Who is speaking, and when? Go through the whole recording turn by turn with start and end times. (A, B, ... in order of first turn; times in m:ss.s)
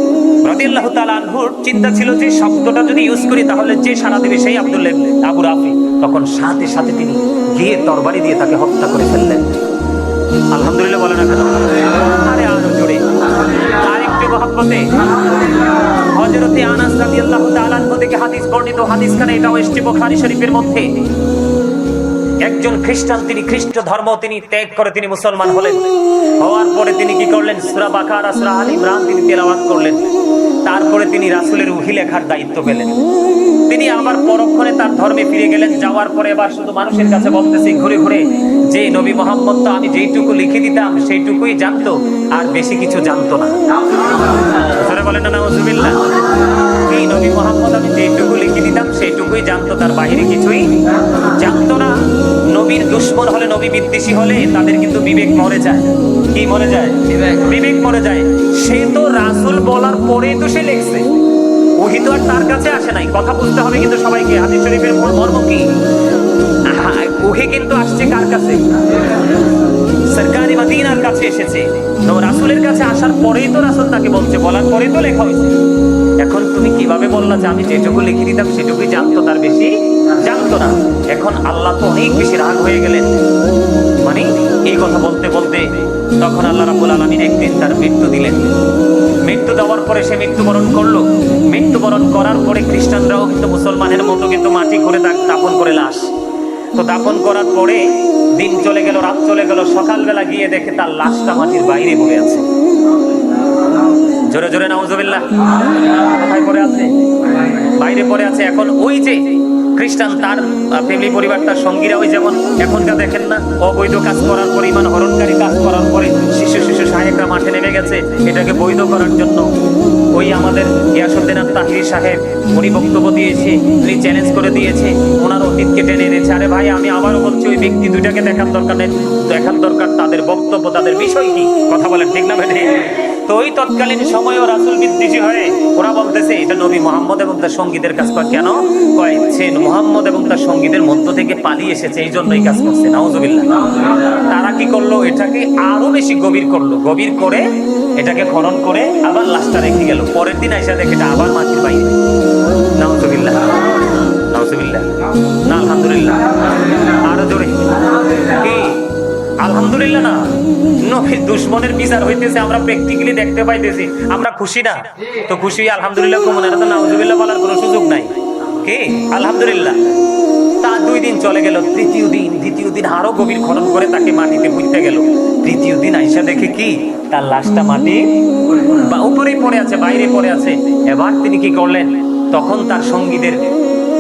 0:00.4-0:09.6 A
0:10.5-0:21.0 A
0:22.4-0:25.9 A
0:26.4-0:30.1 A
0:30.6-0:33.1 A
0:33.7-0:46.1 A
0:46.7-0:52.0 A
0:52.5-1:01.2 A
1:01.8-1:05.7 A
1:06.7-1:08.6 A
1:10.1-1:15.6 A
1:16.2-1:23.2 A
1:24.0-1:28.5 A
1:29.2-1:36.1 A
1:36.7-1:42.5 A
1:44.2-1:46.9 A
1:47.5-1:59.5 A
2:00.1-2:27.5 A
2:28.0-2:32.0 A
2:32.8-2:33.6 A
2:34.1-2:38.8 A
2:39.4-2:40.3 A
2:40.8-2:49.9 A
2:50.6-3:03.4 A